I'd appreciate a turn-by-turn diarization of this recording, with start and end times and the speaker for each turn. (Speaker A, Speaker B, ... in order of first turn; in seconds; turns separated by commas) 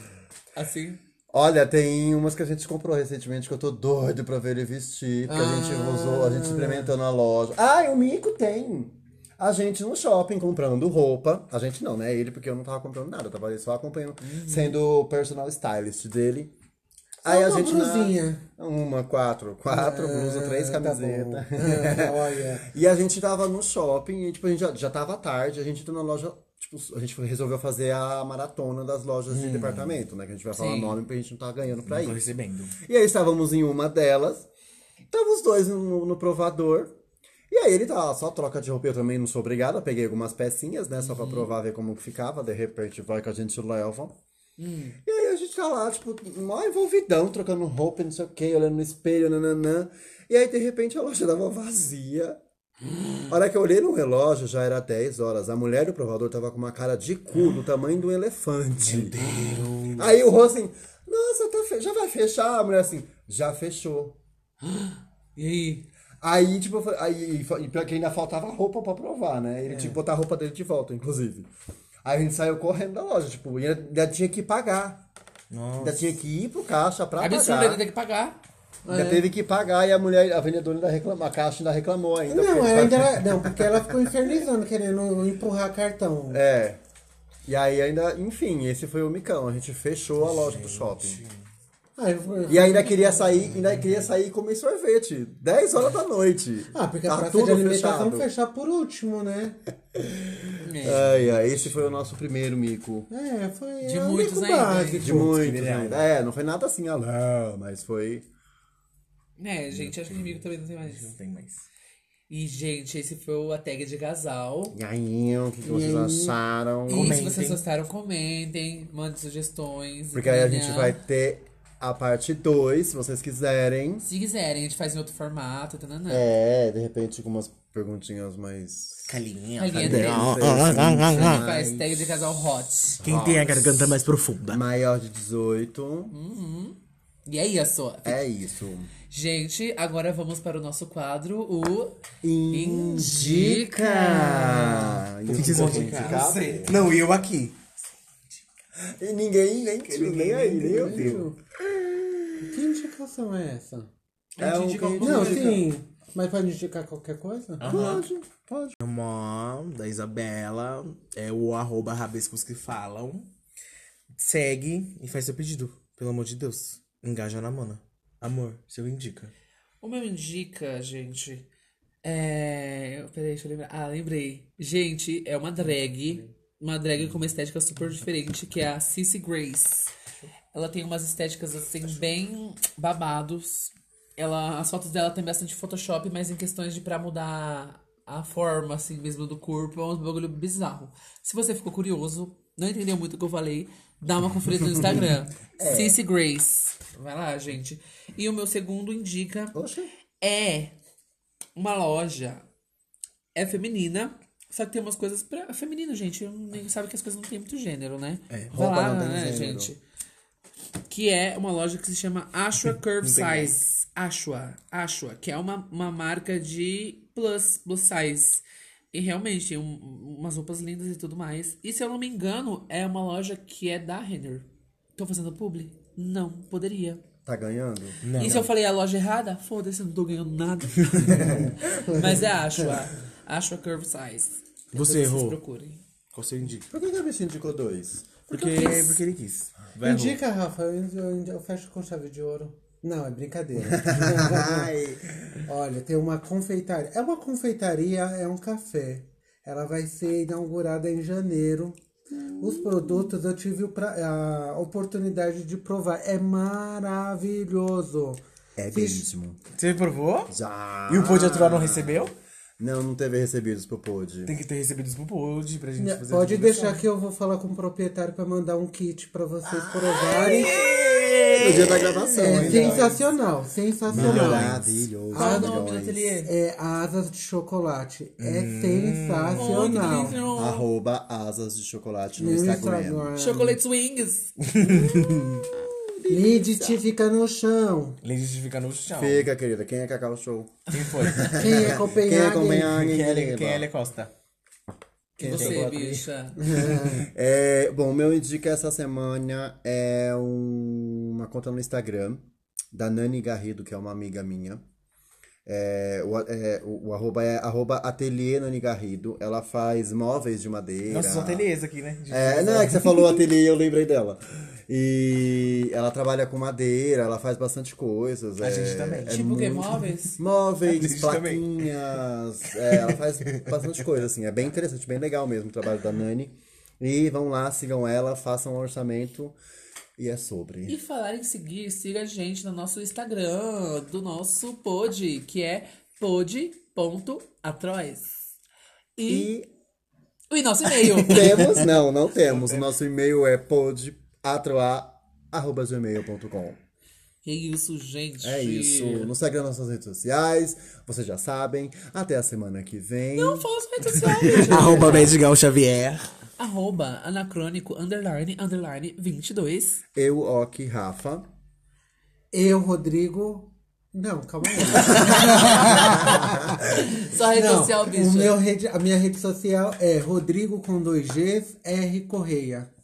Speaker A: 0.6-1.0, Speaker B: 1.3-16.5, Speaker C: 5.3-6.9, Speaker A: 14.2-14.8, Speaker C: 17.2-18.4, Speaker B: 17.2-32.2, Speaker C: 19.7-22.7, Speaker D: 29.3-30.0, Speaker A: 30.5-31.0, Speaker D: 31.9-32.8, Speaker B: 32.8-34.5, Speaker B: 35.1-37.0, Speaker B: 37.5-44.2, Speaker A: 41.0-41.5, Speaker A: 44.6-45.0, Speaker B: 45.0-52.4, Speaker A: 52.9-53.3, Speaker B: 53.3-59.3, Speaker D: 58.8-60.1, Speaker A: 59.2-59.7, Speaker B: 59.9-64.2, Speaker A: 64.6-65.9, Speaker B: 66.2-71.5, Speaker B: 72.0-75.0, Speaker D: 75.5-76.1, Speaker B: 75.8-77.8, Speaker A: 77.2-78.4, Speaker C: 78.9-79.3, Speaker B: 78.9-83.8, Speaker C: 82.3-86.4, Speaker B: 86.3-86.8, Speaker B: 87.5-91.2, Speaker D: 90.2-91.5, Speaker C: 92.0-93.5, Speaker B: 92.5-98.3, Speaker D: 93.5-94.1, Speaker C: 96.7-99.6, Speaker B: 100.2-103.1, Speaker A: 100.6-101.1, Speaker D: 101.3-101.9, Speaker C: 103.1-105.4, Speaker A: 103.8-105.2, Speaker B: 105.0-108.3, Speaker D: 105.3-106.1, Speaker A: 109.4-111.1, Speaker D: 109.7-111.7, Speaker A: 112.3-114.8, Speaker B: 114.7-117.2, Speaker C: 115.6-116.4, Speaker A: 116.9-121.0, Speaker D: 116.9-117.7, Speaker B: 120.1-124.1, Speaker A: 124.0-126.2, Speaker B: 126.1-129.2, Speaker D: 129.1-131.5, Speaker A: 129.6-130.5, Speaker B: 129.7-132.3, Speaker A: 131.2-133.0, Speaker B: 133.0-133.8, Speaker D: 133.0-134.6, Speaker B: 134.5-136.2, Speaker A: 136.1-138.3, Speaker B: 138.1-138.9, Speaker A: 139.1-142.0, Speaker B: 142.2-146.8, Speaker A: 142.5-146.4, Speaker D: 145.3-147.6, Speaker B: 148.8-152.5, Speaker D: 149.8-151.3, Speaker C: 150.7-151.4, Speaker C: 152.4-153.9, Speaker A: 154.4-155.6, Speaker B: 154.4-155.7, Speaker C: 155.0-157.7, Speaker D: 157.6-158.1, Speaker B: 157.6-158.8, Speaker D: 158.8-163.3, Speaker D: 164.2-169.3, Speaker A: 169.8-171.5, Speaker A: 172.0-179.9, Speaker A: 180.5-199.6, Speaker B: 195.6-196.0, Speaker B: 199.5-199.9, Speaker A: 200.2-200.7, Speaker A: 201.6-202.4, Speaker A: 203.3-209.8, Speaker B: 208.5-209.7, Speaker A: 210.9-227.0, Speaker D: 213.0-213.6, Speaker B: 227.2-228.5, Speaker D: 228.0-228.5, Speaker A: 228.2-235.8, Speaker B: 231.1-231.6, Speaker C: 231.9-232.2, Speaker D: 234.7-235.4, Speaker D: 236.1-236.7, Speaker B: 236.7-238.7, Speaker D: 238.3-240.2, Speaker A: 238.3-239.0, Speaker C: 239.8-244.8, Speaker B: 243.6-245.0, Speaker C: 245.5-251.8, Speaker C: 252.4-259.1, Speaker B: 258.6-259.4, Speaker D: 259.6-260.3, Speaker B: 260.3-264.3, Speaker D: 260.9-262.1, Speaker D: 264.3-266.9, Speaker C: 265.8-270.7, Speaker D: 269.4-273.0, Speaker B: 271.4-273.0, Speaker C: 272.1-274.6, Speaker B: 273.9-276.0, Speaker D: 273.9-274.9, Speaker C: 275.1-275.7, Speaker A: 275.1-275.7, Speaker D: 275.5-276.3, Speaker C: 276.2-280.2, Speaker D: 278.2-280.3, Speaker A: 279.4-280.7, Speaker B: 280.3-283.1, Speaker C: 282.2-283.6, Speaker A: 283.2-284.7, Speaker D: 284.5-285.6, Speaker B: 285.1-286.8, Speaker C: 286.1-288.0, Speaker D: 288.0-289.3, Speaker B: 288.9-293.7, Speaker D: 290.7-291.8, Speaker C: 291.4-292.8, Speaker D: 292.7-294.1, Speaker A: 295.2-296.6, Speaker B: 295.2-304.6, Speaker D: 295.3-295.8, Speaker C: 296.5-297.1, Speaker B: 305.5-311.5, Speaker D: 310.9-313.1, Speaker B: 312.1-329.4, Speaker D: 318.4-319.2, Speaker A: 319.1-320.2, Speaker D: 320.7-321.7, Speaker D: 322.5-323.8, Speaker B: 330.0-330.8, Speaker A: 330.7-338.2, Speaker A: 339.0-339.3, Speaker B: 339.1-339.5, Speaker A: 340.3-341.6, Speaker B: 340.8-346.6, Speaker D: 342.2-342.7, Speaker A: 347.2-349.1, Speaker B: 348.2-355.1, Speaker A: 353.2-355.1, Speaker D: 354.3-356.1, Speaker A: 356.4-359.8, Speaker B: 359.9-361.3, Speaker C: 362.3-372.7, Speaker B: 364.7-366.6, Speaker A: 366.7-368.4